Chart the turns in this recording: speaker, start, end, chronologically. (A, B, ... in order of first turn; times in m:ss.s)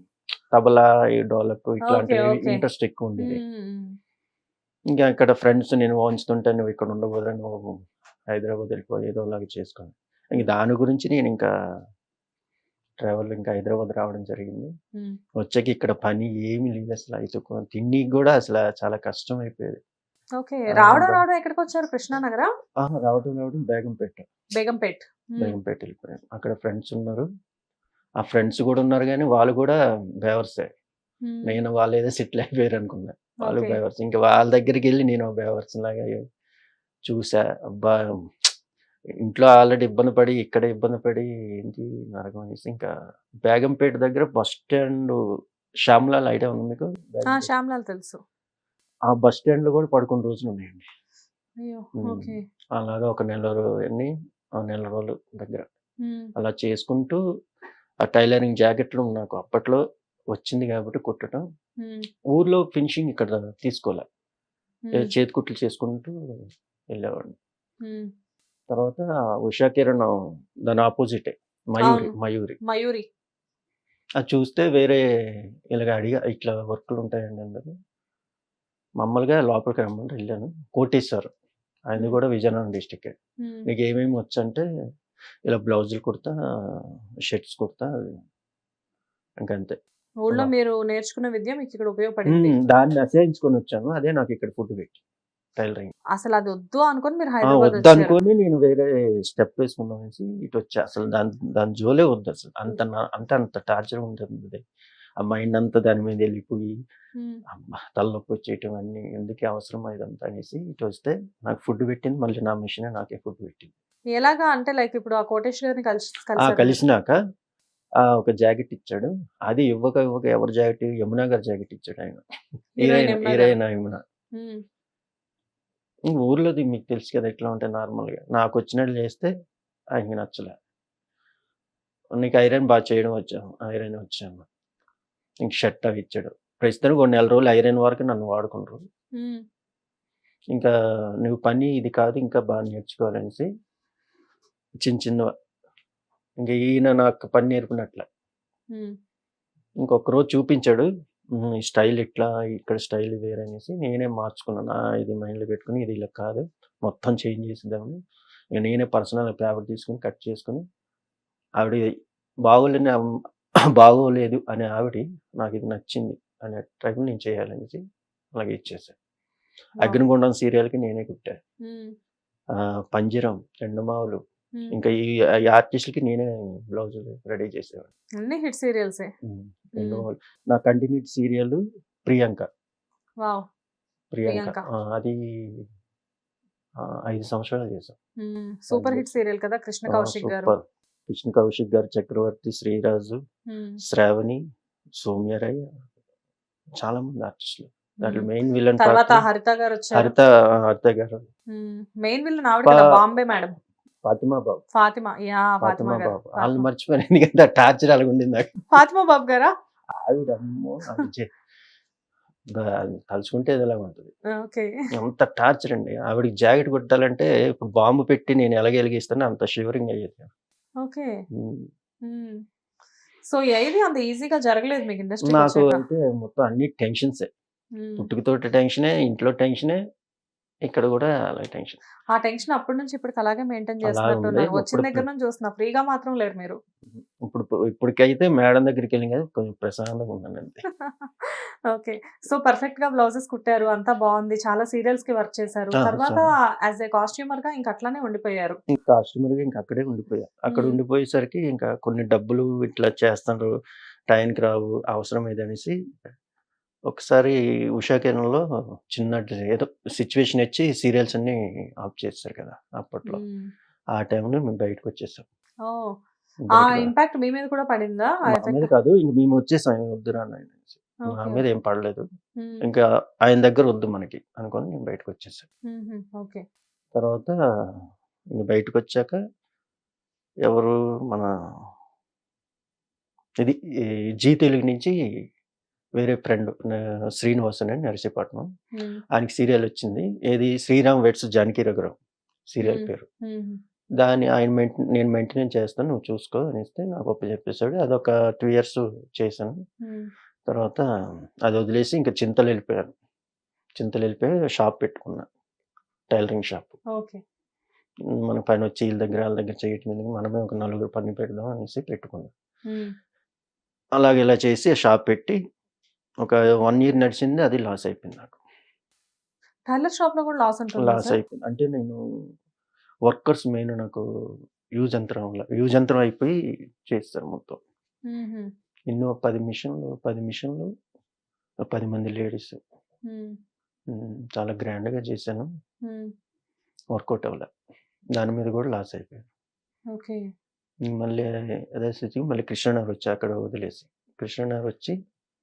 0:00.5-0:03.4 A
0:01.9-0:02.6 B
0:03.2-0:03.9 B
0:05.0-0:07.7 A
0:08.3-0:11.5 A
0:13.0-0:14.7 A
0:15.4-0:19.8 A
0:20.4-0:22.5 B
0:20.7-0:21.2 A
0:22.8-0:24.3 A
0:24.6-0:25.6 B
0:25.4-0:27.3 A
0:28.2-0:30.7 A
0:31.2-0:31.6 B
0:31.4-0:36.2 A
0:33.4-0:33.8 B
0:37.1-0:38.5 A
0:39.2-0:42.9 A
0:43.4-0:45.2 A
0:45.8-0:47.5 A
0:47.2-0:48.2 B
0:49.1-0:50.9 A
0:51.6-0:52.4 B
0:52.0-0:55.7 A
0:56.0-0:56.3 B
0:56.4-0:57.2 A
0:58.0-0:59.8 A
1:00.3-1:01.4 A
1:01.8-1:02.0 B
1:02.3-1:04.1 A
1:04.9-1:05.1 B
1:04.9-1:06.1 A
1:06.9-1:07.3 A
1:07.8-1:08.1 B
1:08.7-1:10.1 A
1:10.7-1:12.6 A
1:11.8-1:12.1 B
1:12.6-1:13.0 B
1:14.2-1:15.0 A
1:15.7-1:17.7 A
1:19.0-1:21.3 A
1:21.9-1:23.2 A
1:23.7-1:24.6 A
1:25.5-1:28.1 A
1:29.4-1:29.8 A
1:30.2-1:32.6 B
1:32.3-1:35.0 A
1:35.6-1:35.9 A
1:36.1-1:38.2 B
1:37.4-1:44.6 A
1:45.2-1:46.7 A
1:47.5-1:53.7 A
1:54.2-1:56.8 B
1:56.4-1:57.2 A
1:58.0-2:02.2 A
2:02.8-2:03.6 B
2:02.8-2:04.0 A
2:06.1-2:09.3 A
2:10.0-2:10.6 A
2:12.2-2:14.5 A
2:15.4-2:18.8 A
2:19.2-2:19.4 B
2:21.2-2:23.5 A
2:24.8-2:25.3 A
2:26.4-2:28.1 A
2:29.8-2:30.9 A
2:31.4-2:38.0 A
2:38.6-2:40.6 A
2:41.6-2:41.9 A
2:42.5-2:43.0 A
2:43.8-2:47.8 A
2:48.4-2:48.9 A
2:49.8-2:51.3 A
2:51.7-2:51.9 B
2:52.6-2:54.2 A
2:54.7-2:57.9 A
2:58.2-2:59.1 B
2:59.2-3:02.5 A
2:59.8-3:00.0 B
3:03.2-3:03.5 B
3:04.1-3:05.6 A
3:04.2-3:04.6 B
3:06.8-3:07.9 A
3:08.2-3:10.6 B
3:08.7-3:09.1 A
3:09.9-3:13.2 A
3:13.5-3:13.8 B
3:13.8-3:14.4 A
3:15.0-3:15.8 A
3:16.8-3:19.2 A
3:18.0-3:18.3 B
3:18.8-3:20.1 B
3:19.9-3:21.2 A
3:21.5-3:23.6 B
3:22.7-3:22.9 A
3:24.0-3:24.6 A
3:24.8-3:26.7 B
3:25.6-3:28.5 A
3:28.7-3:29.5 B
3:30.0-3:31.3 A
3:32.6-3:34.1 A
3:34.4-3:34.7 B
3:34.9-3:40.3 A
3:40.8-3:41.2 B
3:41.3-3:41.7 A
3:42.0-3:42.4 B
3:43.3-3:45.8 B
3:45.2-3:47.3 A
3:47.8-3:48.1 B
3:48.0-3:49.8 A
3:50.7-3:51.8 A
3:52.2-3:56.6 B
3:53.8-3:55.1 A
3:56.9-4:00.6 A
4:00.8-4:08.6 B
4:05.8-4:06.2 A
4:08.7-4:13.5 A
4:10.5-4:10.8 B
4:14.1-4:15.8 A
4:16.9-4:23.2 A
4:23.1-4:23.5 B
4:24.0-4:25.2 A
4:25.6-4:25.9 B
4:26.5-4:26.9 A
4:26.6-4:28.7 B
4:28.2-4:32.0 A
4:31.1-4:31.4 B
4:32.6-4:35.4 A
4:35.7-4:36.4 B
4:36.9-4:37.3 A
4:38.4-4:39.2 A
4:40.5-4:41.3 A
4:44.2-4:44.9 A
4:46.0-4:48.5 A
4:49.1-4:52.0 A
4:52.5-4:53.0 A
4:52.6-4:53.6 B
4:54.0-4:59.6 A
4:59.8-5:00.1 B
5:00.5-5:00.8 A
5:01.4-5:02.9 A
5:03.8-5:05.3 A
5:06.1-5:06.8 A
5:07.0-5:07.2 B
5:08.3-5:12.3 A
5:14.0-5:15.4 A
5:16.2-5:18.4 A
5:19.7-5:21.2 B
5:20.8-5:22.0 A
5:23.1-5:24.0 A
5:24.8-5:26.3 A
5:26.9-5:27.6 A
5:28.1-5:28.5 B
5:28.9-5:30.7 A
5:31.7-5:32.6 A
5:33.1-5:33.4 B
5:33.9-5:35.5 A
5:35.8-5:36.1 B
5:36.9-5:37.5 A
5:38.2-5:39.2 A
5:39.9-5:40.2 B
5:40.8-5:45.0 A